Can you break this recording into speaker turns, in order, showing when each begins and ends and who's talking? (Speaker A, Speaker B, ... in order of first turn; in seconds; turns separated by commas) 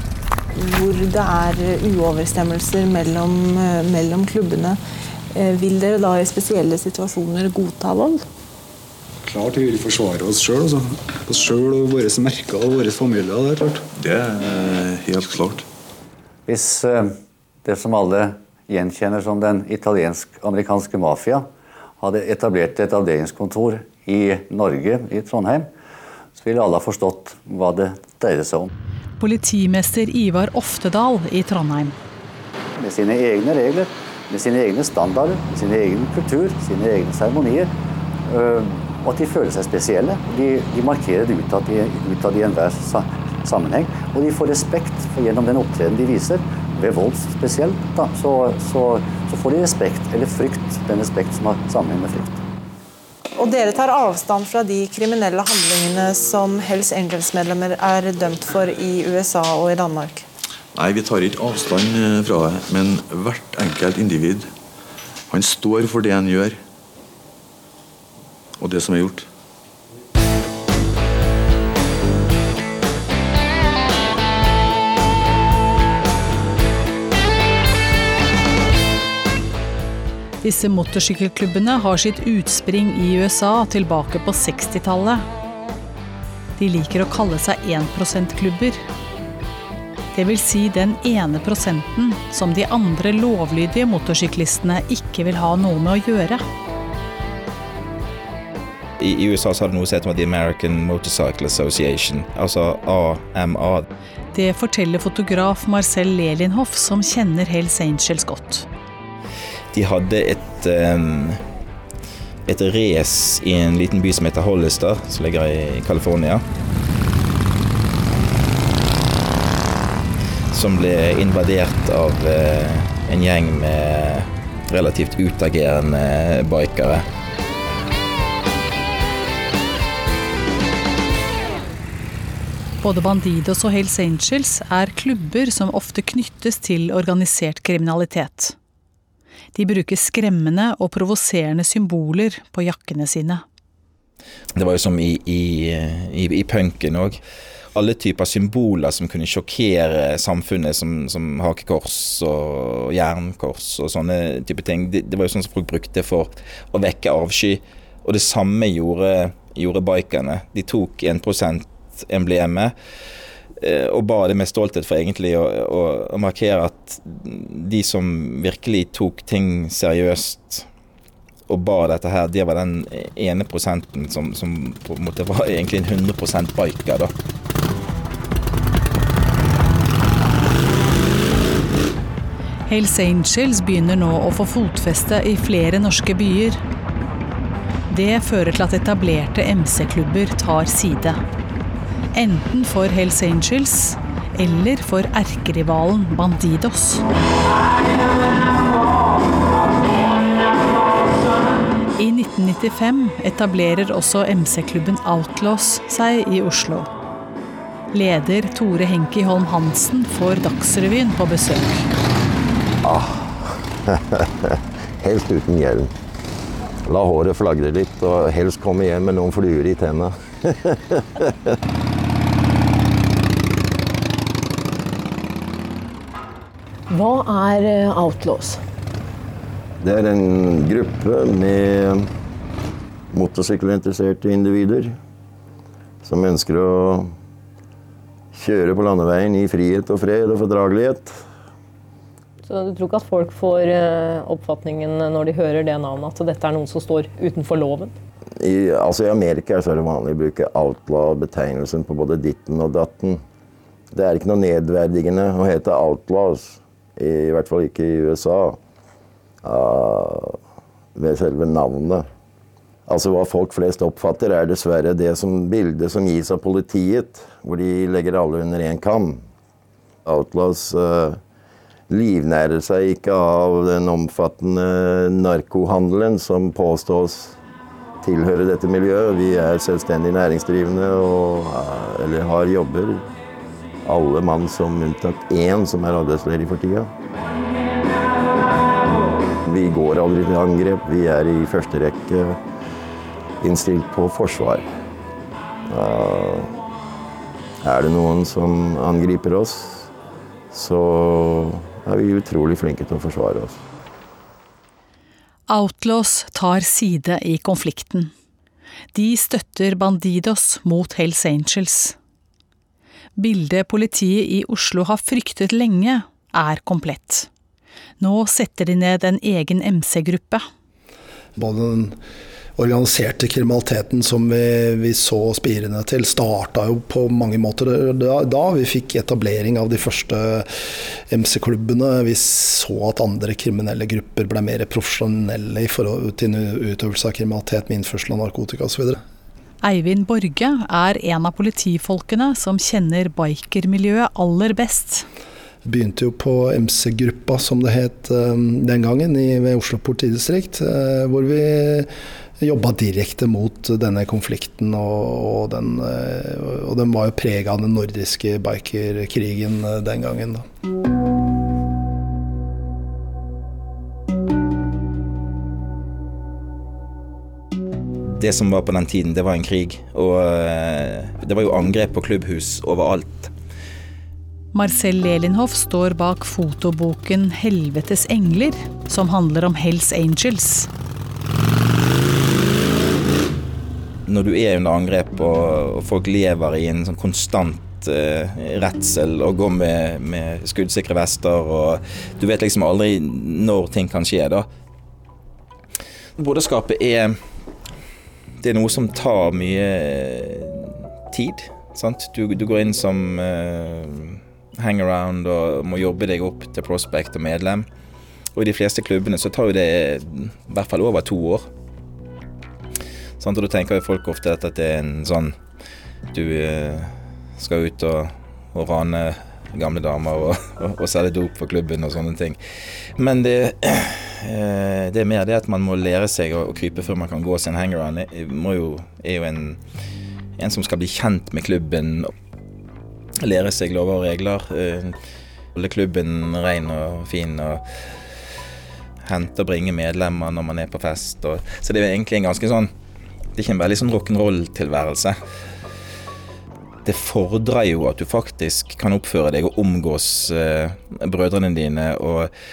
Speaker A: 0.6-4.8, Speaker A: 5.3-8.2, Speaker B: 9.3-13.8, Speaker C: 14.0-15.7, Speaker D: 16.5-21.5, Speaker D: 22.0-25.7, Speaker D: 26.4-28.7, Speaker E: 29.2-31.9, Speaker D: 32.8-37.7, Speaker D: 38.3-52.4, Speaker A: 53.4-60.3, Speaker C: 60.8-64.5, Speaker C: 65.3-66.6, Speaker C: 68.6-69.3, Speaker E: 80.4-85.2, Speaker E: 86.6-88.8, Speaker E: 90.2-96.4, Speaker F: 99.0-103.9, Speaker E: 104.3-108.7, Speaker F: 109.7-111.4, Speaker F: 112.5-116.5, Speaker F: 120.5-127.1, Speaker E: 132.8-138.6, Speaker E: 139.6-143.4, Speaker F: 144.6-147.2, Speaker F: 147.8-162.7, Speaker F: 163.6-170.7, Speaker F: 171.5-177.1, Speaker E: 182.7-186.6, Speaker E: 187.9-191.2, Speaker E: 192.1-197.0, Speaker E: 202.0-206.9, Speaker E: 207.9-211.9, Speaker G: 212.8-215.9, Speaker G: 216.9-221.6, Speaker G: 229.8-232.1, Speaker G: 233.1-234.9, Speaker G: 236.0-237.1, Speaker G: 238.3-241.2, Speaker H: 242.5-247.9, Speaker G: 248.4-253.2, Speaker G: 253.9-258.6, Speaker G: 259.4-260.4, Speaker G: 261.0-262.1, Speaker G: 262.9-269.2, Speaker G: 270.1-271.2, Speaker G: 271.9-277.4, Speaker G: 278.0-283.0, Speaker G: 283.9-286.9, Speaker G: 289.4-292.4, Speaker G: 293.4-294.6, Speaker G: 295.7-296.5, Speaker G: 297.6-299.9, Speaker G: 300.5-303.6, Speaker E: 305.5-308.1, Speaker E: 308.9-312.0, Speaker E: 313.2-317.3, Speaker E: 318.0-320.4, Speaker I: 321.4-322.0, Speaker I: 322.6-339.0, Speaker E: 339.6-345.1, Speaker I: 345.6-360.4, Speaker F: 368.1-373.3, Speaker E: 374.5-380.7, Speaker F: 384.1-394.5, Speaker F: 396.2-397.2, Speaker F: 398.4-407.7, Speaker F: 408.4-411.5, Speaker F: 413.2-415.4, Speaker F: 416.1-422.4, Speaker F: 423.0-429.6, Speaker F: 430.4-432.1, Speaker F: 433.2-435.0, Speaker F: 435.6-437.6, Speaker F: 439.0-442.7, Speaker F: 443.4-445.2, Speaker F: 446.9-452.3